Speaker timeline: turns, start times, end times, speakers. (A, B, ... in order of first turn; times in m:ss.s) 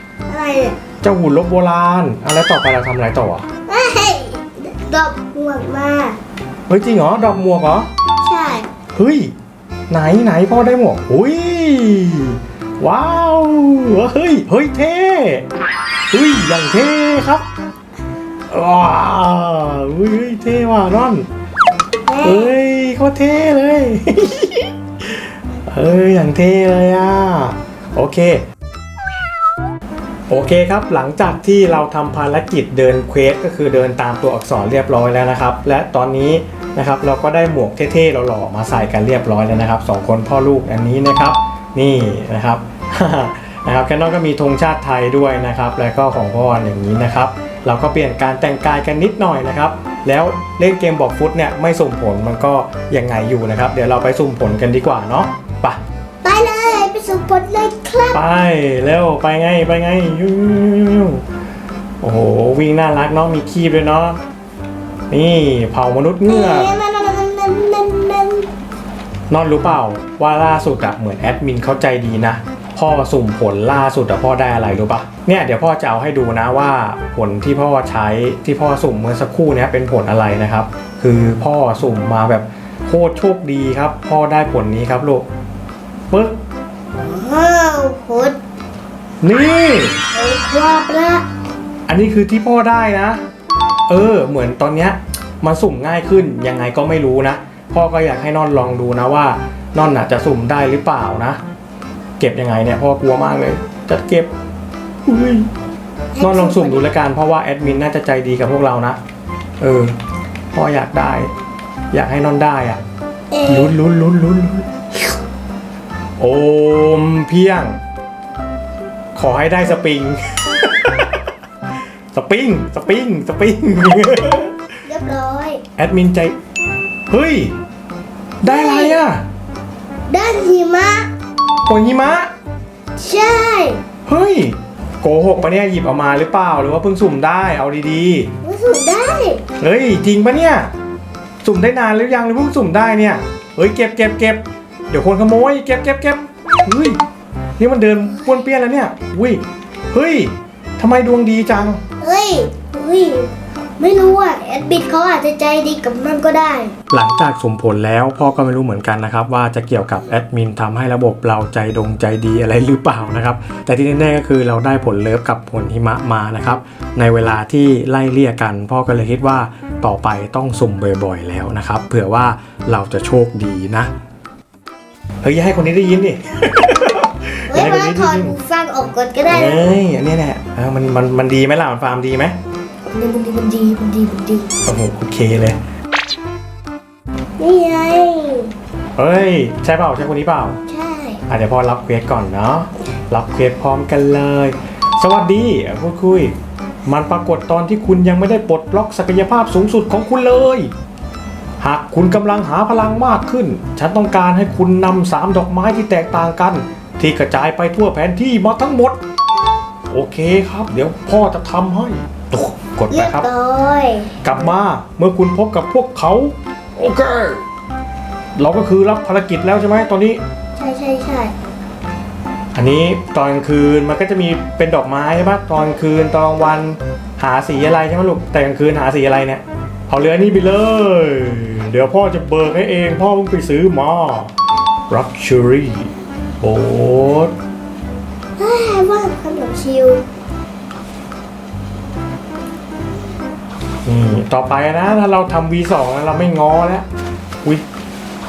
0:00.3-0:00.8 A
0:01.0-0:03.5 B
0:03.7-0:06.2 A
0:06.7-0:07.9 B
0:08.2-0:08.7 A
0:08.9-0:09.3 B
0:09.9-0:15.4 B
0:16.1-0:17.4 B
0:18.5-0:21.3 B
0:22.1-0:22.5 A
0:22.2-0:28.4 B
0:30.3-0:55.8 B
0:56.2-0:58.2 A
0:58.1-1:01.2 B
1:02.0-1:04.2 B
1:05.1-1:06.7 B
1:06.2-1:08.5 A
1:09.3-1:25.2 B
1:26.1-1:26.4 B
1:26.9-1:28.4 A
1:29.2-1:30.0 B
1:30.1-1:31.2 A
1:31.9-1:33.2 B
1:33.9-1:41.4 B
1:42.2-1:44.3 B
1:45.0-1:45.5 B
1:46.1-1:46.9 A
1:46.2-1:49.0 B
1:49.6-1:50.0 B
1:50.5-1:51.3 B
1:51.9-1:52.8 B
1:53.3-1:53.7 A
1:53.5-1:54.7 B
1:56.2-1:57.8 B
1:59.1-2:01.2 B
2:02.1-2:04.5 B
2:04.8-2:05.6 A
2:05.8-2:06.3 B
2:07.1-2:07.6 B
2:08.4-2:09.2 B
2:08.4-2:09.0 A
2:10.1-2:11.1 A
2:11.6-2:12.3 B
2:13.0-2:13.8 A
2:14.1-2:18.3 B
2:18.4-2:19.4 A
2:19.6-2:20.7 B
2:21.4-2:27.0 B
2:27.6-2:31.8 B
2:32.0-2:36.7 A
2:36.9-2:53.9 B
2:55.2-2:58.3 B
2:57.5-2:59.6 A
2:59.3-3:02.4 B
3:02.9-3:04.5 A
3:04.6-3:05.6 B
3:07.4-3:08.5 A
3:09.0-3:10.6 B
3:10.7-3:11.2 A
3:11.3-3:16.3 B
3:16.8-3:20.7 B
3:21.6-3:29.0 B
3:29.9-3:33.3 B
3:32.9-3:34.1 A
3:34.2-3:37.4 B
3:38.4-3:40.2 B
3:40.6-3:41.3 A
3:42.5-3:54.3 B
3:54.9-3:57.3 B
3:58.4-4:00.0 A
4:03.8-4:06.8 B